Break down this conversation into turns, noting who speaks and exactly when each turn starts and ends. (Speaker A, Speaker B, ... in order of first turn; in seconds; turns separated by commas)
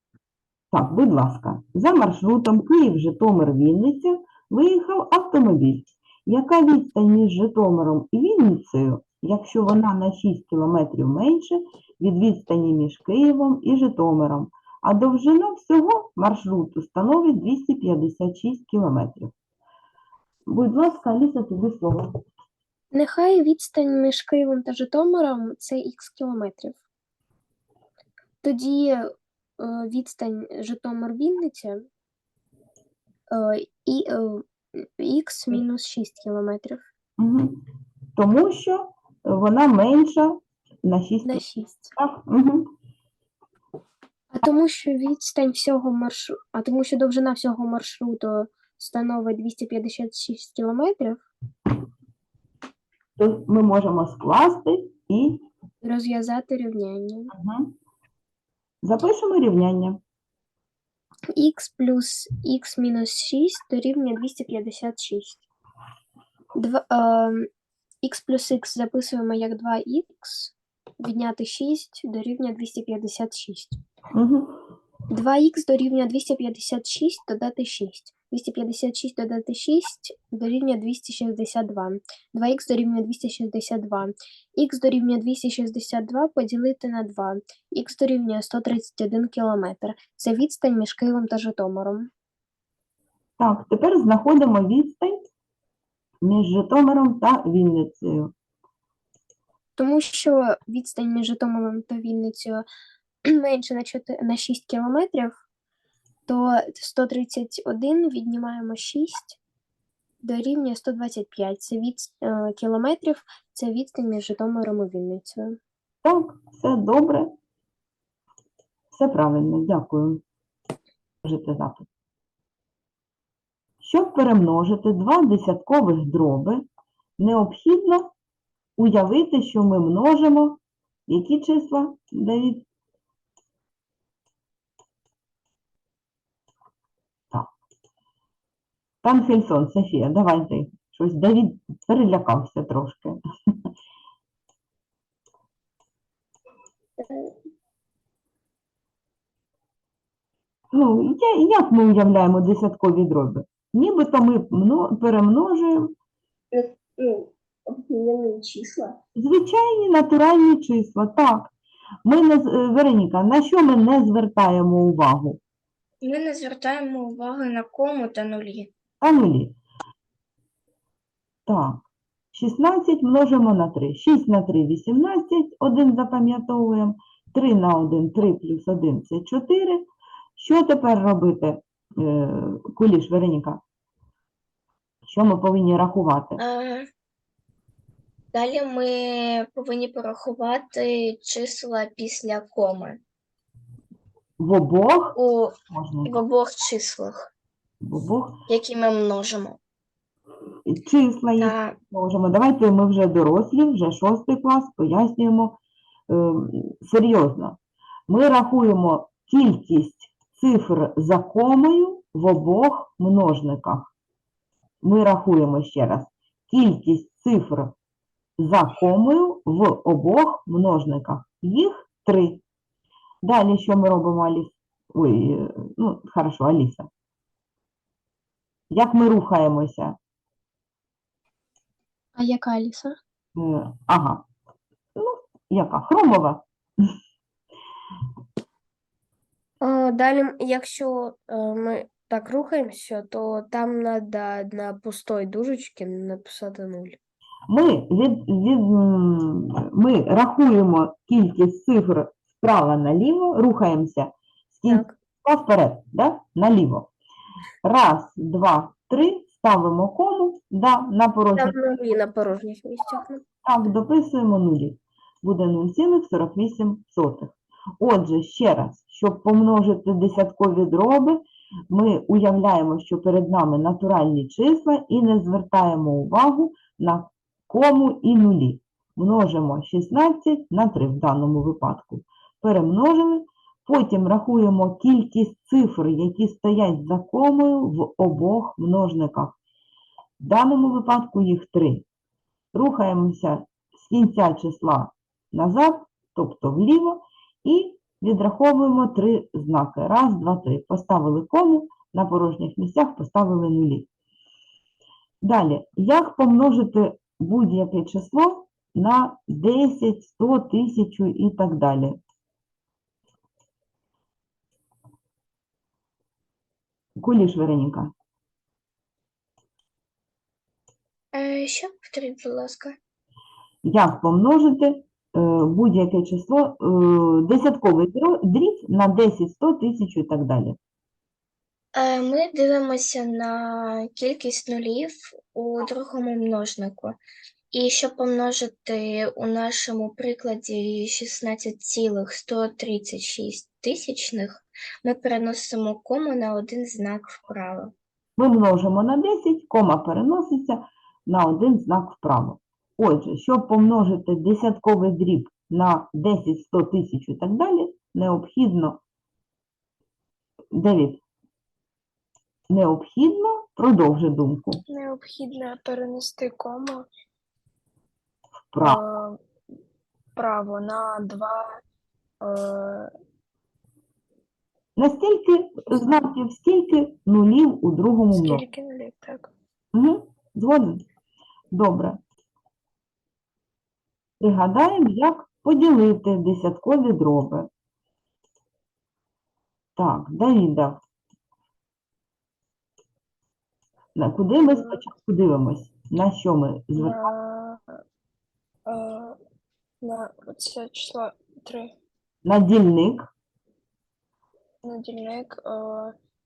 Speaker A: 0.7-19.3, Speaker A: 20.5-22.1, Speaker B: 22.9-26.8, Speaker B: 28.4-31.9, Speaker B: 33.3-36.9, Speaker A: 37.2-37.6, Speaker A: 38.2-41.4, Speaker B: 41.3-41.9, Speaker A: 42.0-42.7, Speaker B: 44.3-51.3, Speaker A: 53.2-55.4, Speaker B: 55.8-57.3, Speaker A: 57.3-57.7, Speaker A: 58.8-60.0, Speaker B: 61.4-65.4, Speaker B: 66.6-67.5, Speaker B: 68.0-73.8, Speaker A: 74.1-74.5, Speaker B: 75.1-92.1, Speaker A: 93.4-95.2, Speaker A: 96.2-98.3, Speaker B: 99.8-102.7, Speaker B: 103.3-105.4, Speaker B: 106.3-109.4, Speaker B: 110.2-115.6, Speaker A: 116.0-117.3, Speaker A: 118.9-120.2, Speaker A: 121.2-121.9, Speaker A: 123.8-126.7, Speaker A: 127.2-128.1, Speaker A: 128.8-132.7, Speaker A: 139.0-143.2, Speaker A: 150.7-155.9, Speaker C: 156.5-158.9, Speaker A: 159.2-161.5, Speaker A: 162.1-165.4, Speaker C: 166.0-168.7, Speaker A: 169.0-169.6, Speaker A: 171.5-179.8, Speaker A: 180.4-183.6, Speaker A: 185.1-186.4, Speaker C: 186.4-186.9, Speaker C: 188.3-193.0, Speaker A: 194.4-195.2, Speaker C: 195.2-197.3, Speaker A: 195.7-196.2, Speaker A: 197.8-198.4, Speaker C: 198.5-199.6, Speaker A: 200.7-205.6, Speaker C: 201.4-201.8, Speaker A: 206.1-213.9, Speaker A: 214.8-217.7, Speaker A: 218.4-222.4, Speaker A: 223.2-226.9, Speaker A: 228.7-230.0, Speaker B: 232.2-233.0, Speaker A: 233.4-234.2, Speaker A: 235.0-236.4, Speaker D: 239.6-247.0, Speaker A: 247.5-256.9, Speaker A: 257.6-261.6, Speaker D: 261.3-263.2, Speaker A: 263.4-289.4, Speaker A: 290.2-291.9, Speaker A: 292.5-303.9, Speaker A: 305.2-312.0, Speaker A: 317.0-317.9, Speaker C: 321.1-322.8, Speaker A: 323.6-330.6, Speaker C: 331.8-337.0, Speaker C: 337.5-347.7, Speaker A: 348.2-358.8, Speaker A: 360.5-361.0, Speaker A: 362.5-364.6, Speaker E: 364.7-366.9, Speaker A: 368.5-368.8, Speaker E: 368.6-369.2, Speaker E: 370.2-371.6, Speaker E: 372.2-372.9, Speaker A: 374.8-378.4, Speaker E: 378.1-379.3, Speaker A: 379.7-380.8, Speaker A: 381.5-382.0, Speaker A: 384.2-387.5, Speaker A: 389.8-390.8, Speaker A: 393.9-397.0, Speaker E: 394.5-394.8, Speaker E: 396.8-397.6, Speaker E: 398.7-399.2, Speaker E: 399.8-401.7, Speaker A: 402.2-403.1, Speaker E: 404.6-405.9